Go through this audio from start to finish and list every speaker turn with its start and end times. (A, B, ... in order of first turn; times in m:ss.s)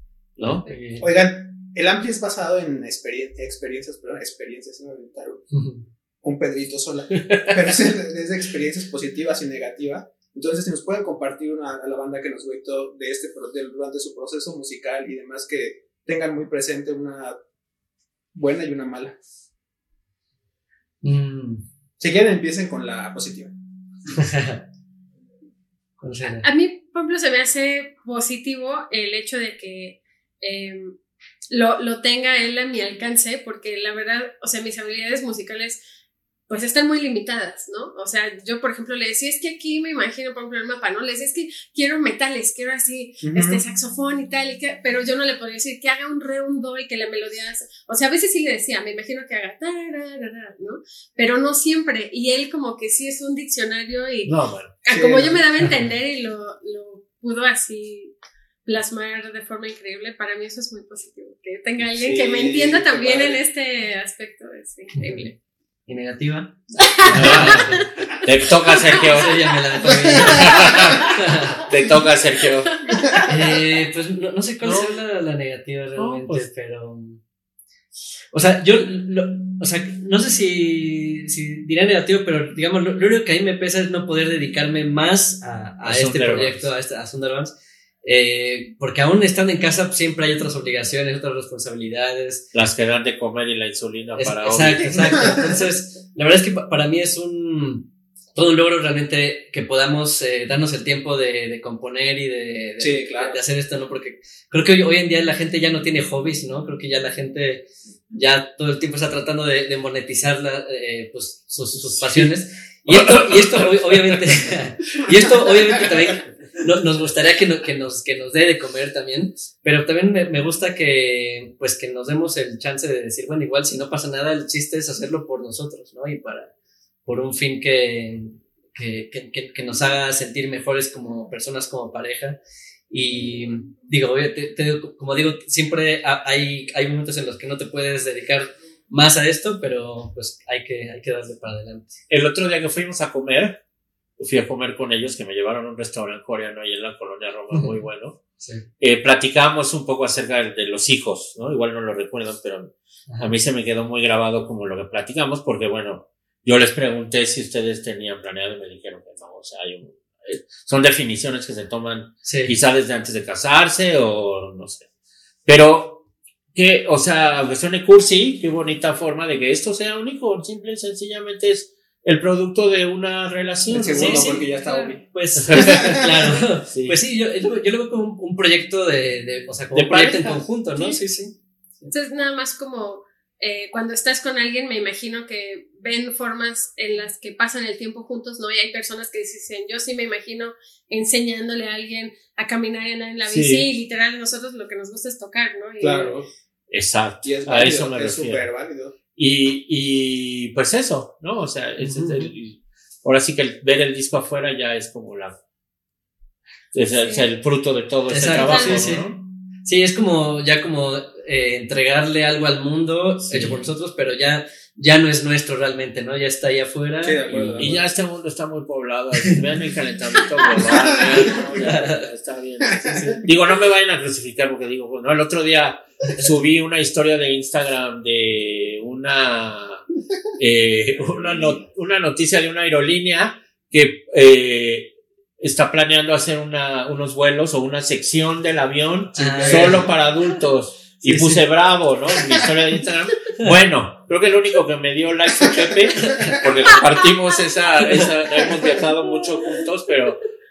0:00.4-0:00.6 A
0:00.7-0:01.1 B
0:01.0-0:05.4 C
0:05.5-0:05.9 B
0:06.2-0:17.4 C
0:07.2-0:07.5 B
0:18.3-0:19.2 C
0:21.0-0:21.6 B
0:22.0-0:23.6 C
0:24.2-0:24.6 B
0:26.0-0:26.5 B
0:26.4-0:31.0 D
0:31.5-0:35.8 D
0:36.5-1:05.3 D
0:43.2-0:43.6 C
0:54.3-0:54.7 A
0:54.9-0:55.4 C
0:55.6-0:55.9 B
1:02.0-1:03.4 C
1:05.0-1:07.9 B
1:06.8-1:07.6 D
1:07.1-1:12.8 A
1:08.6-1:09.1 D
1:09.1-1:11.6 B
1:10.4-1:11.0 D
1:12.9-1:13.2 D
1:13.3-1:17.2 B
1:14.6-1:15.0 A
1:16.0-1:16.5 A
1:18.3-1:32.5 B
1:25.9-1:26.7 A
1:32.5-1:35.3 A
1:34.2-2:06.5 B
1:42.8-1:43.4 C
1:52.9-1:54.4 A
2:07.1-2:12.4 B
2:12.9-2:22.0 B
2:22.1-2:23.6 A
2:24.2-2:28.2 A
2:27.5-2:27.8 B
2:28.4-2:28.7 B
2:28.8-2:44.9 A
2:33.1-2:33.3 B
2:42.2-2:42.5 B
2:45.4-2:46.0 A
2:46.6-2:54.4 A
2:53.7-2:55.0 C
2:54.0-3:01.9 B
2:54.6-2:55.0 D
2:55.4-2:56.1 A
2:55.5-2:56.1 C
2:56.7-2:57.0 A
2:59.7-3:00.4 A
3:01.9-3:16.2 D
3:13.3-3:13.7 A
3:15.8-3:16.3 C
3:16.7-3:18.5 A
3:17.2-3:19.0 C
3:19.2-3:25.4 A
3:21.8-3:22.3 B
3:26.7-3:29.2 A
3:26.9-3:27.3 D
3:28.1-3:29.1 B
3:28.3-3:29.0 D
3:29.6-3:37.8 B
3:33.2-3:33.6 A
3:37.0-3:37.8 C
3:37.6-3:49.8 A
3:41.6-3:42.1 B
3:42.6-3:43.2 C
3:42.9-3:43.2 B
3:50.4-4:10.2 A
3:59.2-3:59.9 B
3:59.3-3:59.8 C
4:01.0-4:01.4 B
4:07.8-4:08.1 B